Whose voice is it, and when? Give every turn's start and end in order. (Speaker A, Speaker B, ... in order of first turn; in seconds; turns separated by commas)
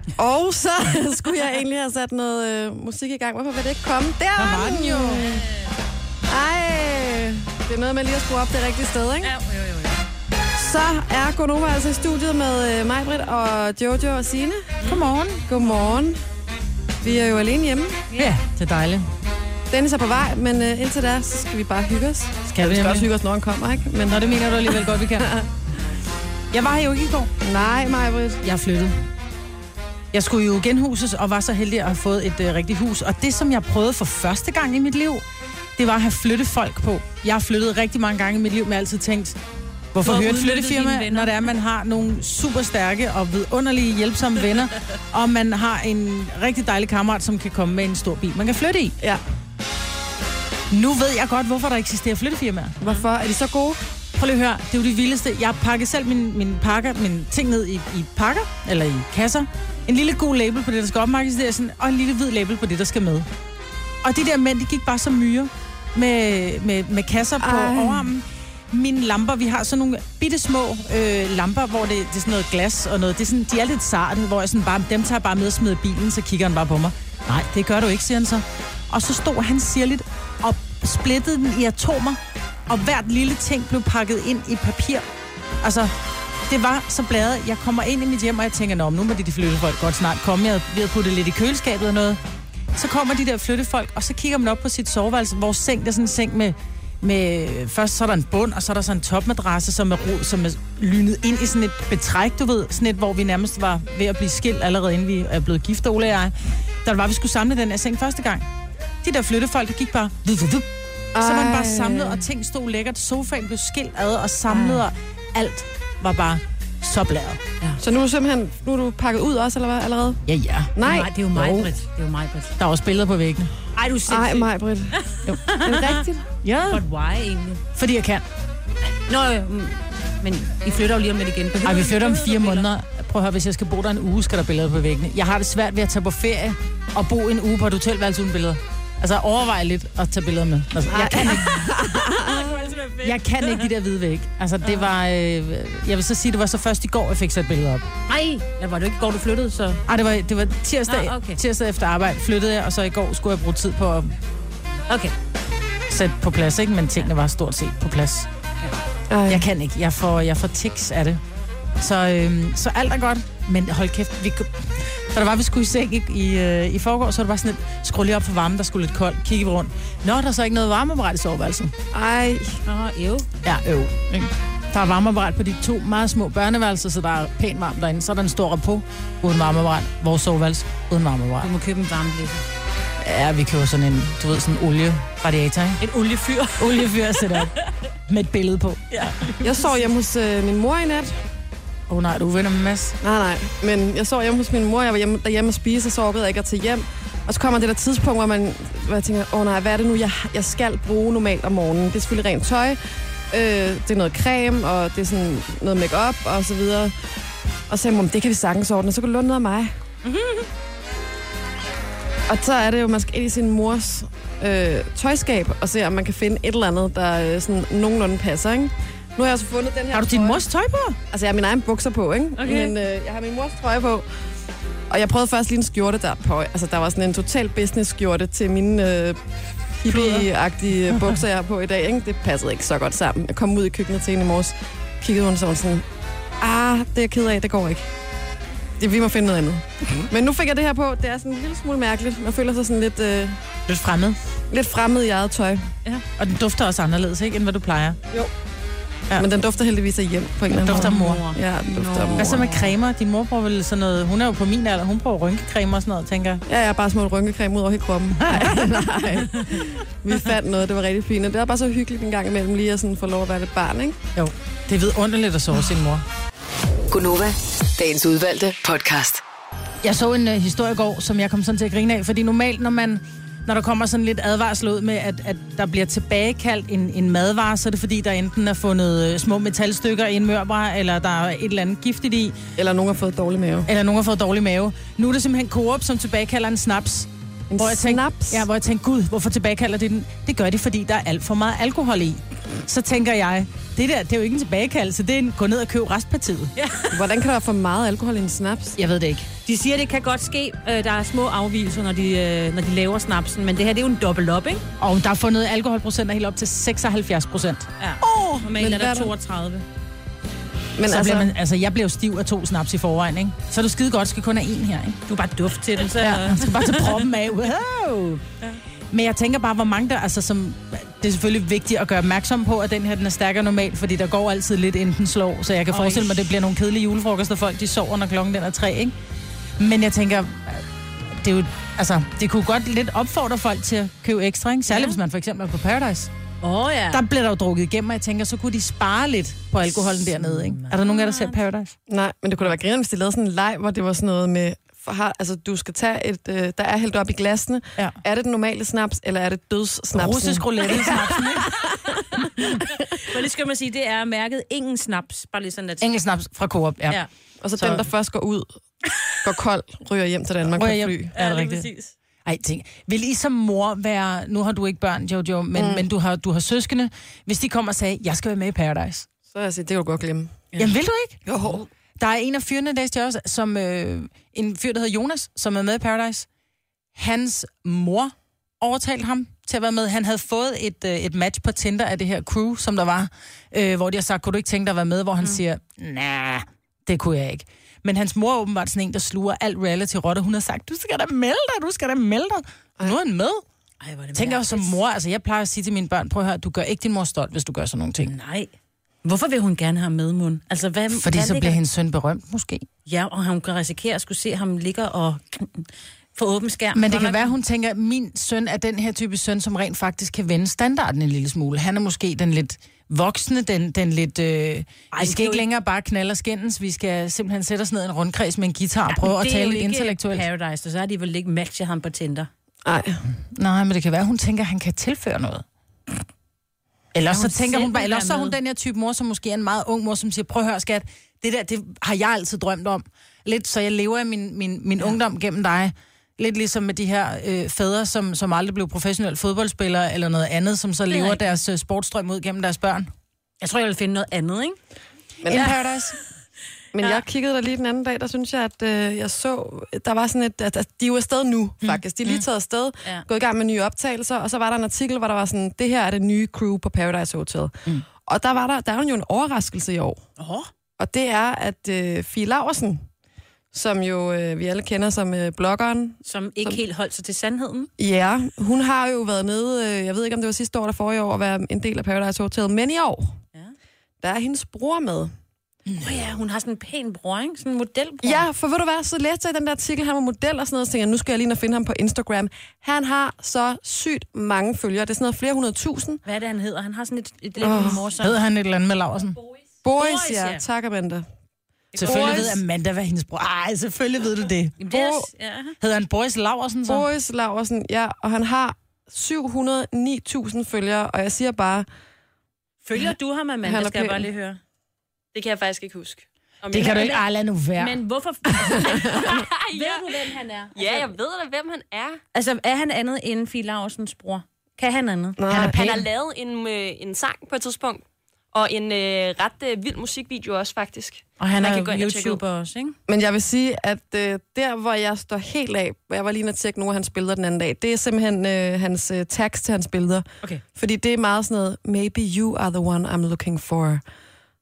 Speaker A: 0.2-5.4, Speaker B: 4.4-5.4, Speaker C: 5.2-5.7, Speaker A: 6.3-9.3, Speaker C: 9.2-10.0, Speaker A: 10.6-14.8, Speaker B: 14.8-15.4, Speaker A: 15.5-16.2, Speaker A: 17.0-18.0, Speaker C: 18.1-18.4, Speaker B: 18.2-19.1, Speaker A: 19.7-25.5, Speaker B: 22.5-23.1, Speaker B: 24.1-25.3, Speaker B: 26.5-27.3, Speaker A: 27.4-28.4, Speaker B: 28.4-29.0, Speaker B: 30.1-35.2, Speaker B: 35.8-39.4, Speaker B: 39.9-48.9, Speaker C: 40.0-41.5, Speaker B: 50.7-52.8, Speaker A: 52.8-53.8, Speaker B: 54.1-63.3, Speaker B: 64.0-85.0, Speaker A: 67.4-68.1, Speaker B: 85.6-85.9, Speaker B: 86.5-92.2, Speaker B: 92.8-108.5, Speaker B: 109.0-117.4, Speaker A: 111.1-112.2, Speaker C: 114.5-114.8, Speaker A: 117.8-120.2, Speaker B: 120.3-120.7, Speaker A: 120.8-121.1, Speaker C: 120.8-122.6, Speaker B: 121.3-121.7, Speaker B: 122.6-123.5, Speaker C: 123.8-124.5, Speaker A: 124.1-126.3, Speaker C: 125.0-126.0, Speaker B: 125.2-126.8, Speaker C: 126.7-127.6, Speaker B: 127.8-128.2, Speaker C: 129.1-132.7, Speaker B: 131.6-141.6, Speaker A: 140.8-142.7, Speaker C: 142.2-143.7, Speaker B: 143.0-147.9, Speaker C: 148.1-149.8, Speaker B: 149.9-154.1, Speaker C: 150.9-151.4, Speaker C: 154.9-155.1, Speaker B: 155.9-158.3, Speaker A: 159.1-159.5, Speaker B: 159.3-161.2, Speaker B: 161.8-171.7, Speaker A: 171.9-172.6, Speaker C: 172.7-173.3, Speaker B: 173.4-181.5, Speaker C: 181.4-182.4, Speaker B: 183.0-185.8, Speaker C: 185.8-187.5, Speaker B: 186.6-187.5, Speaker B: 188.1-189.3, Speaker C: 188.9-189.6, Speaker A: 189.4-191.1, Speaker B: 191.9-192.9, Speaker A: 193.0-202.8, Speaker A: 203.3-206.9, Speaker A: 207.7-209.7, Speaker C: 210.0-210.5, Speaker A: 212.3-220.5, Speaker B: 219.9-221.0, Speaker A: 221.1-224.1, Speaker C: 222.4-222.8, Speaker A: 224.9-229.2, Speaker A: 229.8-235.8, Speaker B: 229.9-230.3, Speaker A: 236.4-237.9, Speaker A: 238.8-243.4, Speaker B: 243.7-244.2, Speaker A: 244.5-245.6, Speaker B: 246.2-248.0, Speaker A: 249.1-252.5, Speaker B: 250.6-251.2, Speaker C: 250.6-252.7, Speaker B: 252.2-256.4, Speaker A: 256.5-264.0, Speaker B: 258.2-258.7, Speaker B: 264.1-266.0, Speaker D: 266.9-269.2, Speaker B: 269.8-282.4, Speaker A: 282.6-283.7, Speaker B: 283.7-296.5, Speaker A: 287.5-288.5, Speaker C: 296.6-297.0, Speaker A: 296.9-298.8, Speaker B: 298.8-299.3, Speaker C: 299.5-304.6, Speaker B: 304.8-308.5, Speaker C: 307.8-309.6, Speaker A: 308.6-309.1, Speaker A: 310.8-311.4, Speaker B: 310.9-315.0, Speaker C: 315.1-317.1, Speaker B: 316.0-318.2, Speaker B: 318.9-328.9, Speaker C: 325.7-326.2, Speaker B: 329.6-336.1, Speaker C: 334.7-335.0, Speaker C: 336.4-337.0, Speaker B: 336.9-341.8, Speaker C: 339.7-341.4, Speaker A: 341.9-352.9, Speaker B: 349.9-351.6, Speaker C: 352.9-355.9, Speaker B: 355.8-357.0, Speaker A: 357.4-358.5, Speaker A: 359.2-361.1, Speaker B: 360.5-361.7, Speaker C: 361.1-361.9, Speaker B: 362.2-369.1, Speaker A: 365.5-365.9, Speaker A: 369.3-370.7, Speaker B: 370.6-371.2, Speaker A: 371.2-371.6, Speaker B: 372.0-376.3, Speaker B: 377.0-393.4, Speaker C: 393.8-394.8, Speaker B: 394.1-398.1, Speaker C: 398.0-398.5, Speaker C: 399.0-401.6, Speaker B: 400.9-402.7, Speaker C: 402.9-407.3, Speaker B: 406.7-420.2, Speaker C: 414.9-415.4, Speaker C: 418.9-422.3, Speaker A: 422.6-423.0, Speaker B: 423.4-425.4, Speaker B: 426.9-442.9, Speaker C: 427.1-428.4, Speaker C: 440.9-441.4, Speaker C: 443.4-444.6, Speaker A: 445.2-445.6, Speaker B: 445.3-446.0, Speaker A: 446.7-460.0, Speaker B: 451.6-452.2, Speaker C: 460.2-460.5, Speaker A: 460.8-462.9, Speaker A: 463.5-466.6, Speaker C: 466.0-467.7, Speaker A: 467.8-473.2, Speaker A: 474.0-475.1, Speaker B: 475.7-476.0, Speaker C: 475.8-478.2, Speaker A: 478.0-486.0, Speaker C: 486.1-488.2, Speaker A: 487.4-487.9, Speaker B: 488.0-489.2, Speaker A: 489.6-491.0, Speaker C: 489.8-490.4, Speaker C: 491.7-492.4, Speaker A: 491.7-492.4, Speaker B: 491.8-495.0, Speaker C: 494.6-495.6, Speaker B: 495.6-496.9, Speaker A: 496.6-501.7, Speaker C: 502.6-504.4, Speaker A: 503.4-504.1, Speaker E: 505.1-507.0, Speaker B: 506.5-507.8, Speaker C: 506.6-507.0, Speaker C: 507.6-510.9, Speaker A: 508.4-509.1, Speaker E: 508.9-510.0, Speaker E: 510.5-512.0, Speaker C: 512.1-515.5, Speaker A: 515.2-515.6, Speaker B: 515.3-515.8, Speaker E: 515.4-522.2, Speaker C: 521.2-522.8, Speaker A: 522.9-533.8